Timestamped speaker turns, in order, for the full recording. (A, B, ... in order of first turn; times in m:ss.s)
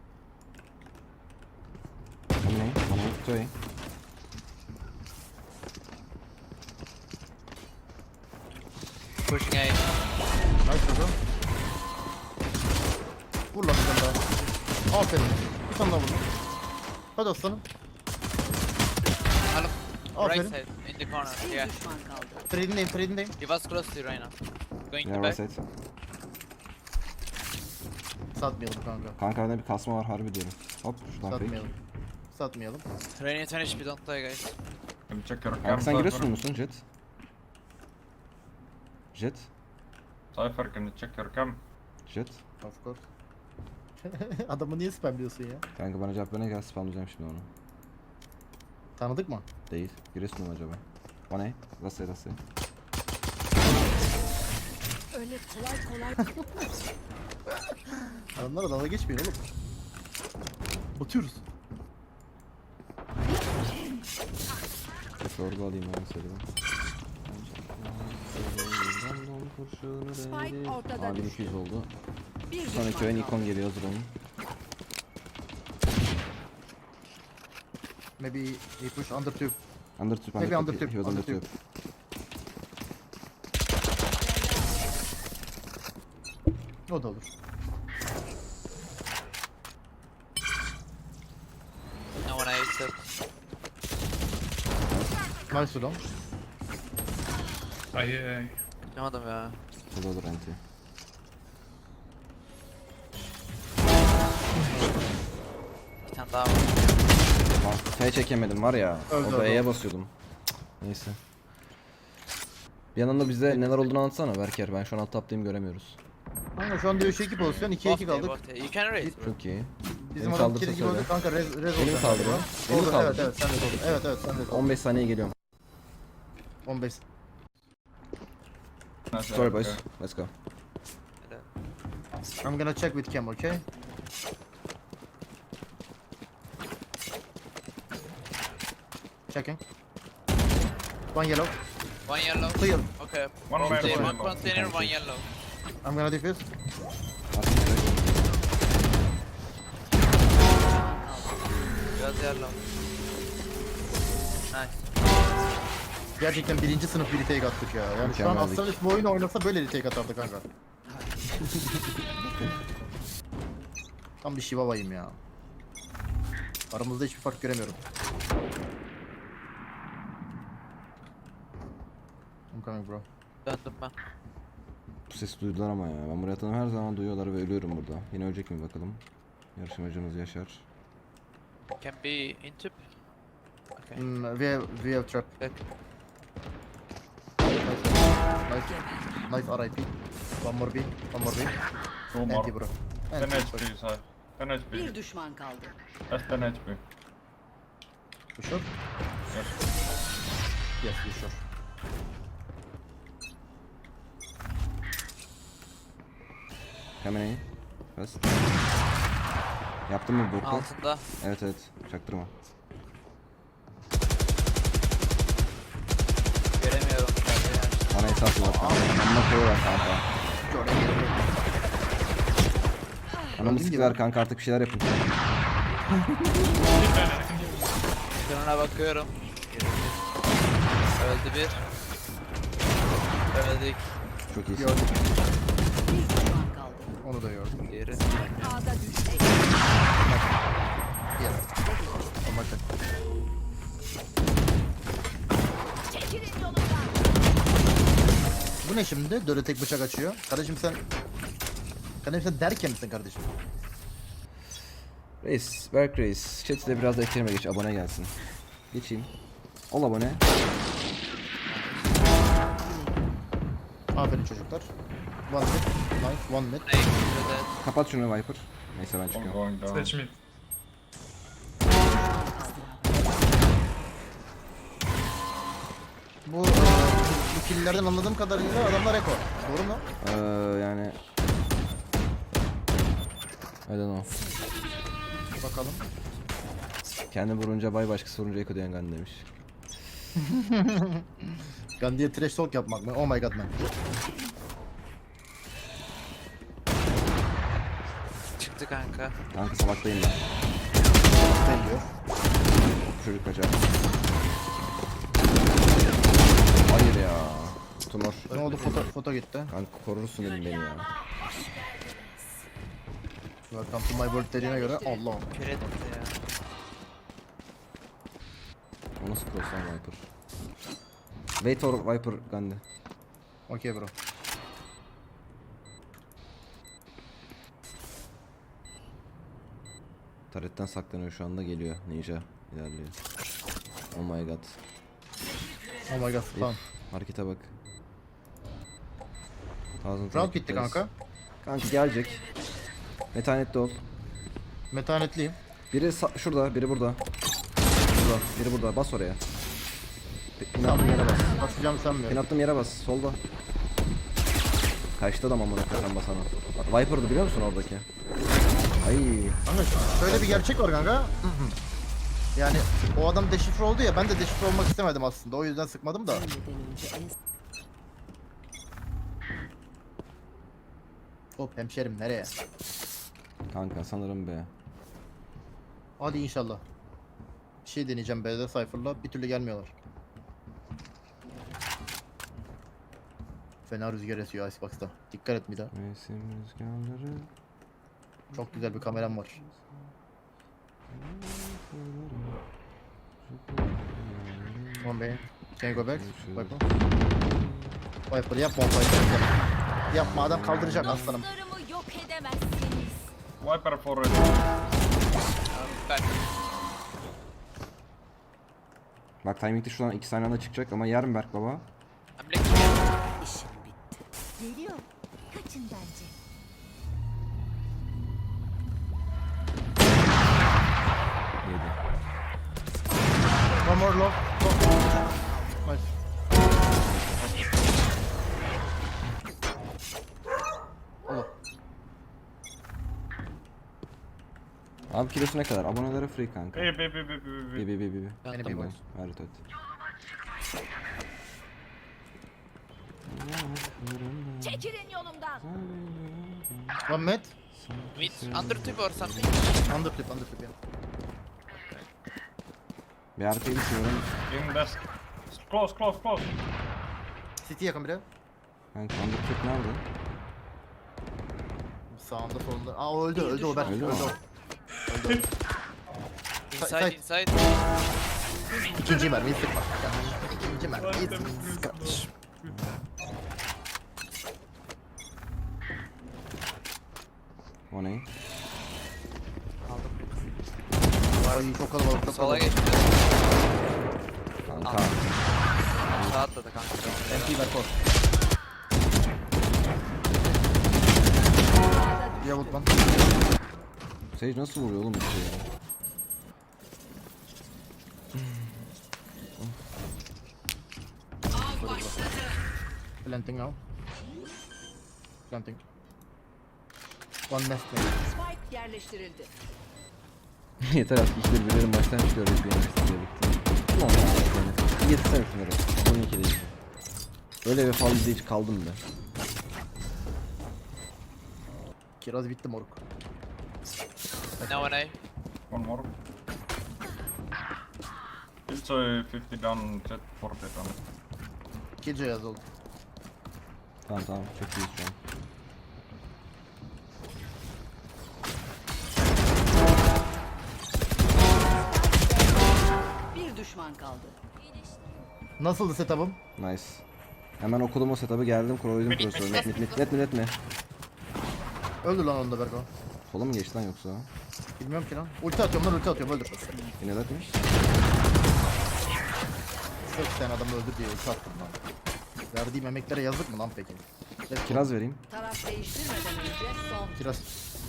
0:02.4-0:03.6 A
0:09.3-0:09.8 B
0:10.6-0:11.2 C
0:13.5-0:14.2 C
0:14.9-0:16.3 C
0:17.2-0:17.6 C
0:19.5-0:21.8 B
0:20.2-0:20.6 C
0:21.3-0:22.4 D
0:22.5-0:23.4 C
0:23.4-0:24.3 B
0:24.9-0:25.4 B
0:25.0-0:25.6 A
0:28.4-0:29.2 C
0:29.2-0:31.6 A
0:31.3-0:31.7 C
0:32.3-0:32.8 C
0:33.2-0:34.6 B
0:35.1-0:36.3 E
0:35.6-0:36.8 A
0:39.1-0:39.5 A
0:40.3-0:41.6 E
0:42.1-0:42.4 A
0:42.6-0:43.0 C
0:44.0-0:45.6 C
0:45.8-0:47.5 A
0:49.0-0:49.5 C
0:49.7-0:52.4 A
0:55.1-0:56.2 D
0:56.2-0:56.6 C
0:57.5-0:59.4 C
1:01.0-1:01.4 C
1:05.2-1:06.5 A
1:07.2-1:11.9 A
1:10.3-1:11.2 D
1:12.5-1:13.4 D
1:12.7-1:14.2 A
1:18.2-1:19.6 C
1:20.0-1:21.5 A
1:20.4-1:21.4 C
1:26.9-1:27.3 C
1:32.2-1:33.1 B
1:34.9-1:35.2 A
1:35.5-1:36.0 C
1:38.0-1:38.5 F
1:38.9-1:39.6 B
1:39.9-1:40.6 A
1:44.6-1:45.0 C
1:46.0-1:47.0 B
1:47.4-1:50.1 A
1:49.1-1:49.7 C
1:50.8-1:51.2 A
1:53.0-1:56.0 A
1:53.5-1:53.9 C
1:56.6-1:58.4 C
1:57.2-1:57.8 E
1:57.8-1:59.3 B
1:59.2-2:01.1 A
1:59.9-2:04.7 C
2:01.7-2:03.3 A
2:04.5-2:05.4 A
2:06.7-2:07.0 C
2:09.1-2:09.8 E
2:09.3-2:10.3 A
2:11.2-2:11.5 B
2:12.4-2:13.6 C
2:19.3-2:19.6 C
2:21.1-2:21.6 C
2:22.1-2:25.3 B
2:22.5-2:22.9 C
2:23.5-2:24.3 E
2:23.7-2:24.2 C
2:24.2-2:25.0 A
2:25.8-2:26.5 C
2:27.3-2:28.1 A
2:30.7-2:31.4 D
2:32.0-2:32.6 B
2:34.5-2:34.8 B
2:36.2-2:40.5 C
2:38.0-2:38.8 A
2:41.4-2:41.7 A
2:44.2-2:45.2 C
2:46.7-2:47.8 C
2:52.5-2:53.0 C
2:53.4-2:53.9 B
2:55.1-2:59.0 A
2:59.6-3:00.7 A
3:01.8-3:02.8 B
3:03.8-3:04.0 B
3:04.0-3:05.3 C
3:07.4-3:11.5 C
3:12.1-3:12.6 E
3:12.3-3:13.7 C
3:13.2-3:15.0 E
3:14.7-3:15.8 D
3:16.1-3:16.8 E
3:18.4-3:18.7 C
3:19.3-3:19.6 E
3:20.8-3:21.4 C
3:27.0-3:28.5 A
3:29.9-3:32.3 A
3:30.4-3:31.0 B
3:36.6-3:37.9 B
3:37.9-3:40.1 A
3:38.4-3:39.0 C
3:40.4-3:41.3 C
3:43.4-3:44.0 C
3:43.4-3:45.2 A
3:46.0-3:46.5 A
3:46.8-3:47.4 F
3:48.2-3:50.0 B
3:51.0-3:51.6 B
3:53.3-3:53.8 B
3:54.3-3:54.8 A
3:54.6-3:55.0 C
3:55.9-3:56.9 D
3:57.0-3:57.6 C
3:57.7-3:58.4 B
3:58.0-3:59.3 D
4:00.0-4:00.4 C
4:01.2-4:01.5 C
4:01.7-4:02.0 D
4:02.2-4:02.6 C
4:05.9-4:07.0 D
4:08.6-4:10.8 C
4:12.0-4:13.3 C
4:15.2-4:18.1 A
4:18.7-4:19.1 A
4:19.7-4:20.3 A
4:21.5-4:21.9 B
4:22.6-4:23.0 D
4:23.9-4:24.7 C
4:25.3-4:26.7 C
4:26.6-4:27.6 B
4:27.6-4:29.4 A
4:29.1-4:30.0 E
4:29.7-4:30.1 F
4:31.8-4:33.1 D
4:36.2-4:39.8 C
4:40.0-4:41.0 A
4:43.7-4:44.2 A
4:45.4-4:45.8 C
4:47.1-4:49.3 A
4:50.2-4:53.5 C
4:58.4-4:59.1 B
4:59.3-5:00.3 A
5:01.1-5:01.9 C
5:02.9-5:03.7 A
5:06.7-5:08.3 A
5:08.3-5:08.9 B
5:08.3-5:09.5 C
5:09.5-5:11.0 A
5:11.1-5:12.1 D
5:13.5-5:15.3 C
5:15.3-5:16.2 B
5:19.0-5:20.1 A
5:21.4-5:22.6 A
5:23.5-5:23.9 C
5:30.3-5:33.0 A
5:33.9-5:34.6 A
5:35.9-5:36.6 C
5:36.3-5:37.6 A
5:39.8-5:40.9 A
5:40.1-5:40.9 C
5:41.4-5:42.2 A
5:43.1-5:43.9 A
5:44.7-5:45.4 C
5:45.7-5:47.0 A
5:47.9-5:49.2 A
5:50.4-5:51.3 A
5:50.6-5:52.2 C
5:52.1-5:53.2 A
5:55.0-5:57.9 A
5:58.8-5:59.4 A
5:59.4-6:01.6 C
6:00.1-6:00.5 A
6:02.4-6:06.3 C
6:06.2-6:07.1 D
6:11.4-6:12.3 C
6:13.5-6:14.5 A
6:16.0-6:16.6 C
6:17.6-6:19.7 C
6:23.7-6:25.7 C
6:25.7-6:27.3 A
6:28.3-6:29.9 A
6:28.3-6:29.4 C
6:30.9-6:32.4 A
6:33.2-6:35.0 A
6:34.8-6:36.6 C
6:35.7-6:37.8 A
6:38.1-6:41.3 C
6:39.9-6:41.2 A
6:41.0-6:43.1 D
6:43.4-6:44.5 E
6:45.5-6:46.3 B
6:49.2-6:51.7 A
6:52.2-6:53.0 B
6:53.2-6:53.8 D
6:54.4-6:56.1 D
7:01.4-7:01.8 A
7:03.6-7:05.0 C
7:06.8-7:07.2 A
7:14.9-7:16.7 A
7:16.5-7:17.7 E
7:17.6-7:19.4 A
7:18.2-7:18.6 B
7:18.3-7:18.8 C
7:23.0-7:24.7 A
7:24.4-7:25.4 D
7:25.3-7:26.9 A
7:26.9-7:27.3 C
7:27.5-7:29.6 A
7:27.9-7:29.6 B
7:29.6-7:30.5 C
7:31.5-7:31.9 B
7:33.2-7:34.2 A
7:34.3-7:36.4 E
7:37.4-7:38.0 C
7:38.7-7:39.8 A
7:41.9-7:44.2 C
7:43.5-7:43.8 D
7:43.6-7:44.2 A
7:44.8-7:45.3 C
7:46.5-7:47.4 B
7:46.6-7:47.0 C
7:48.6-7:51.9 C
7:50.8-7:52.0 F
7:51.4-7:51.9 A
7:52.5-7:52.8 A
7:57.7-7:58.1 A
7:59.6-8:00.2 B
8:01.2-8:03.9 B
8:01.2-8:02.6 C
8:04.5-8:05.1 A
8:04.6-8:05.0 B
8:05.6-8:07.6 B
8:05.9-8:06.3 A
8:07.1-8:07.8 C
8:12.2-8:12.8 C
8:14.1-8:15.5 A
8:18.1-8:18.7 A
8:21.3-8:22.1 C
8:23.0-8:23.6 C
8:25.3-8:25.6 C
8:27.3-8:28.0 C
8:28.0-8:29.3 D
8:30.6-8:36.5 A
8:37.4-8:38.8 A
8:42.0-8:42.8 C
8:44.4-8:44.8 C
8:44.5-8:45.0 B
8:45.5-8:45.9 E
8:48.5-8:50.8 E
8:51.8-8:52.4 C
8:53.9-8:55.0 A
9:01.8-9:04.2 D
9:05.4-9:06.2 C
9:06.4-9:06.8 A
9:07.4-9:10.4 A
9:08.9-9:09.4 E
9:09.3-9:09.9 B
9:11.8-9:12.7 C
9:13.1-9:14.1 A
9:14.6-9:16.6 C
9:16.8-9:17.4 A
9:19.8-9:21.6 C
9:22.3-9:24.7 C
9:24.4-9:25.0 A
9:25.1-9:27.0 D
9:27.0-9:27.3 C